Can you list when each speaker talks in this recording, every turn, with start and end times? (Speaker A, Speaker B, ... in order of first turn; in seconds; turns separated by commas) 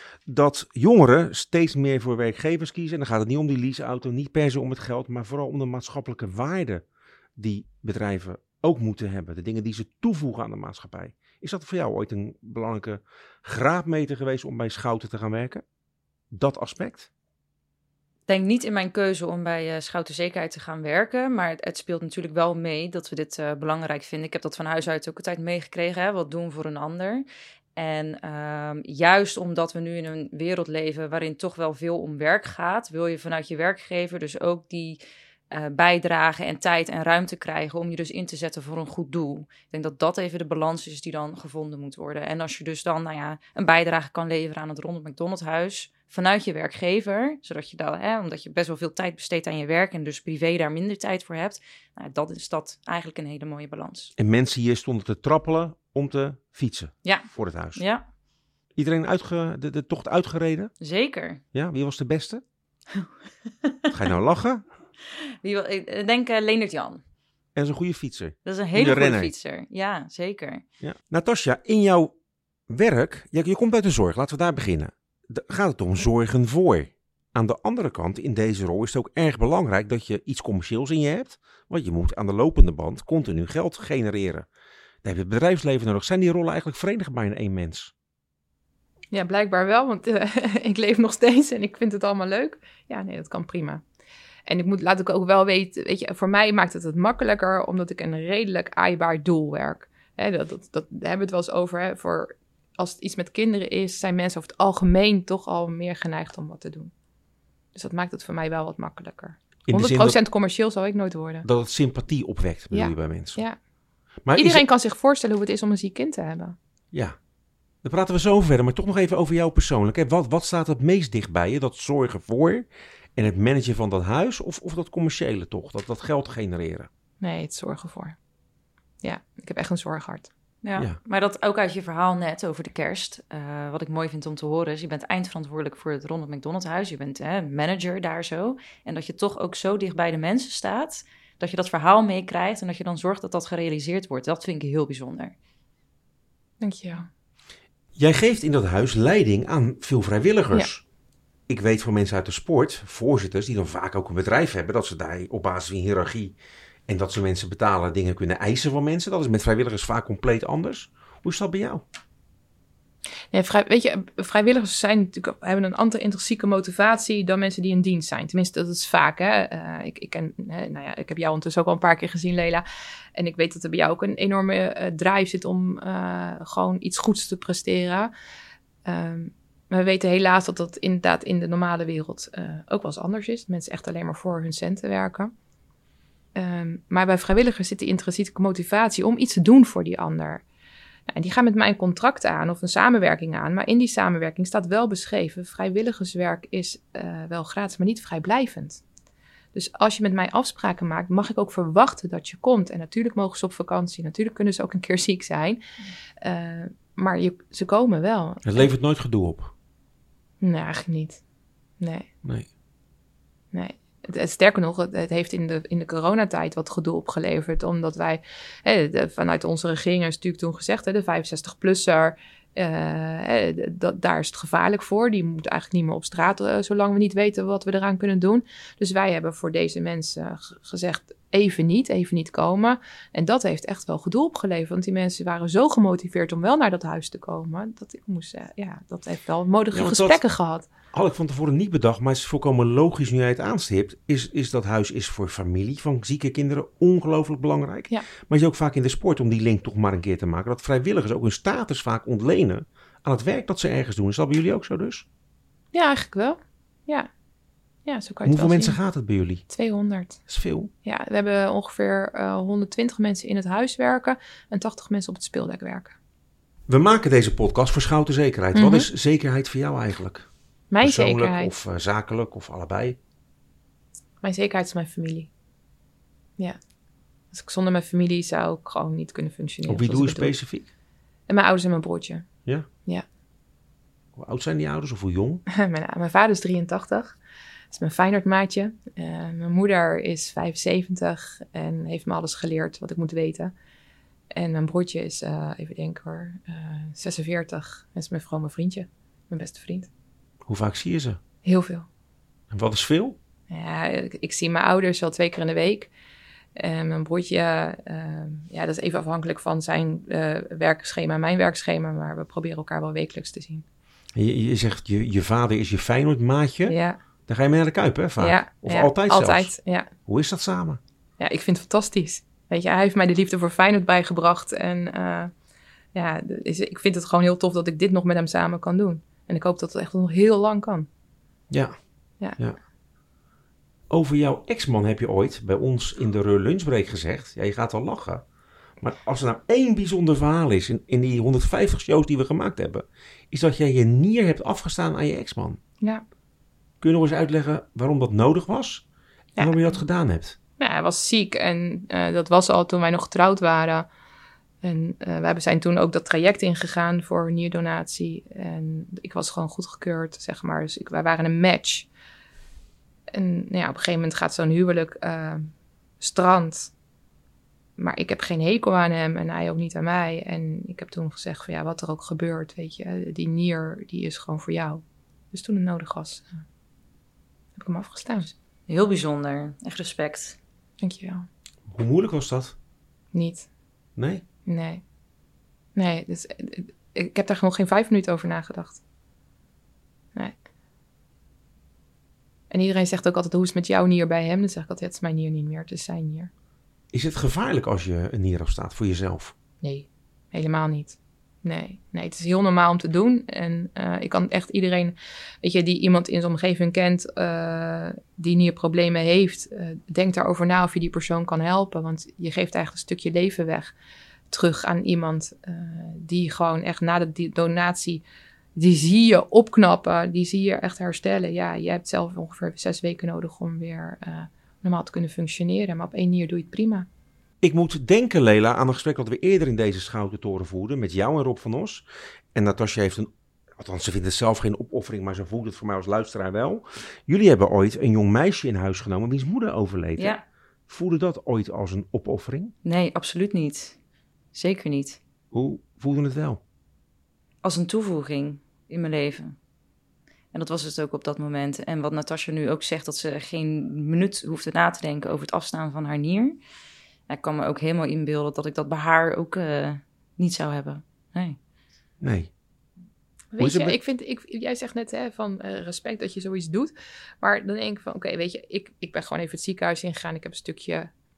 Speaker A: 0.2-6.8, Speaker A: 7.4-15.6, Speaker A: 16.3-17.1, Speaker B: 18.3-27.2, Speaker B: 27.8-35.0, Speaker B: 35.5-54.1, Speaker A: 54.2-57.8, Speaker B: 57.0-58.0, Speaker A: 58.8-60.7, Speaker B: 60.8-61.4, Speaker A: 61.5-62.4, Speaker B: 62.9-63.9, Speaker A: 63.9-64.6, Speaker B: 65.1-67.0, Speaker A: 67.5-69.3, Speaker B: 68.5-70.6, Speaker A: 70.8-72.1, Speaker A: 72.7-84.5, Speaker A: 85.0-87.9, Speaker C: 89.1-93.8, Speaker C: 94.5-106.9, Speaker C: 107.7-111.5, Speaker A: 109.7-110.2, Speaker A: 111.4-113.4, Speaker C: 112.7-113.6, Speaker A: 114.2-114.6, Speaker C: 114.3-116.5, Speaker A: 117.8-126.9, Speaker C: 127.2-128.2, Speaker C: 129.0-130.3, Speaker B: 130.6-145.3, Speaker C: 146.6-147.1, Speaker A: 147.9-150.8, Speaker A: 151.5-156.3, Speaker A: 156.9-161.8, Speaker C: 163.3-172.6, Speaker C: 173.1-178.1, Speaker C: 178.8-185.3, Speaker C: 186.3-190.4, Speaker C: 191.1-198.8, Speaker C: 199.5-205.6, Speaker C: 206.2-208.7, Speaker A: 208.4-209.5, Speaker C: 210.4-211.2, Speaker C: 211.8-212.1, Speaker C: 213.5-240.7, Speaker A: 239.7-240.2, Speaker A: 240.9-255.0, Speaker C: 255.7-257.1, Speaker C: 257.9-258.8, Speaker A: 258.2-259.4, Speaker C: 259.5-260.2, Speaker A: 260.3-260.7, Speaker C: 260.8-265.9, Speaker A: 266.7-270.3, Speaker C: 268.5-268.9, Speaker C: 270.7-271.5, Speaker A: 270.8-273.0, Speaker C: 274.2-275.3, Speaker C: 277.3-280.4, Speaker A: 279.7-280.7, Speaker C: 281.3-282.3, Speaker A: 284.1-285.4, Speaker C: 285.5-287.2, Speaker C: 287.7-293.5, Speaker C: 294.3-299.9, Speaker A: 300.4-301.2, Speaker C: 301.4-301.9, Speaker A: 302.5-303.2, Speaker C: 303.5-305.9, Speaker C: 306.6-313.6, Speaker A: 314.1-316.8, Speaker C: 316.7-317.0, Speaker A: 317.3-319.5, Speaker C: 318.2-319.9, Speaker A: 320.1-320.8, Speaker C: 321.2-325.3, Speaker C: 325.9-330.9, Speaker A: 331.5-331.7, Speaker A: 333.9-338.2, Speaker A: 338.8-345.6, Speaker A: 346.8-348.8, Speaker C: 349.4-349.7, Speaker A: 349.4-350.4, Speaker C: 350.6-353.9, Speaker C: 354.6-361.9, Speaker C: 363.1-366.7, Speaker C: 367.8-376.3, Speaker C: 377.6-378.3, Speaker B: 378.7-380.4, Speaker C: 380.8-381.3, Speaker A: 381.7-382.5, Speaker C: 383.1-383.5, Speaker A: 384.0-384.2, Speaker C: 384.4-384.8, Speaker C: 385.7-388.8, Speaker C: 392.5-396.3, Speaker A: 396.9-399.3, Speaker C: 399.6-413.7, Speaker C: 414.3-418.0, Speaker C: 418.6-426.9, Speaker A: 427.4-440.1, Speaker B: 440.0-440.2, Speaker A: 440.7-442.5, Speaker B: 442.6-443.8, Speaker B: 444.3-445.0, Speaker A: 445.3-446.4, Speaker B: 447.4-449.3, Speaker B: 450.3-456.4, Speaker B: 457.1-461.4, Speaker A: 462.0-462.3, Speaker C: 463.3-470.9, Speaker A: 463.4-463.8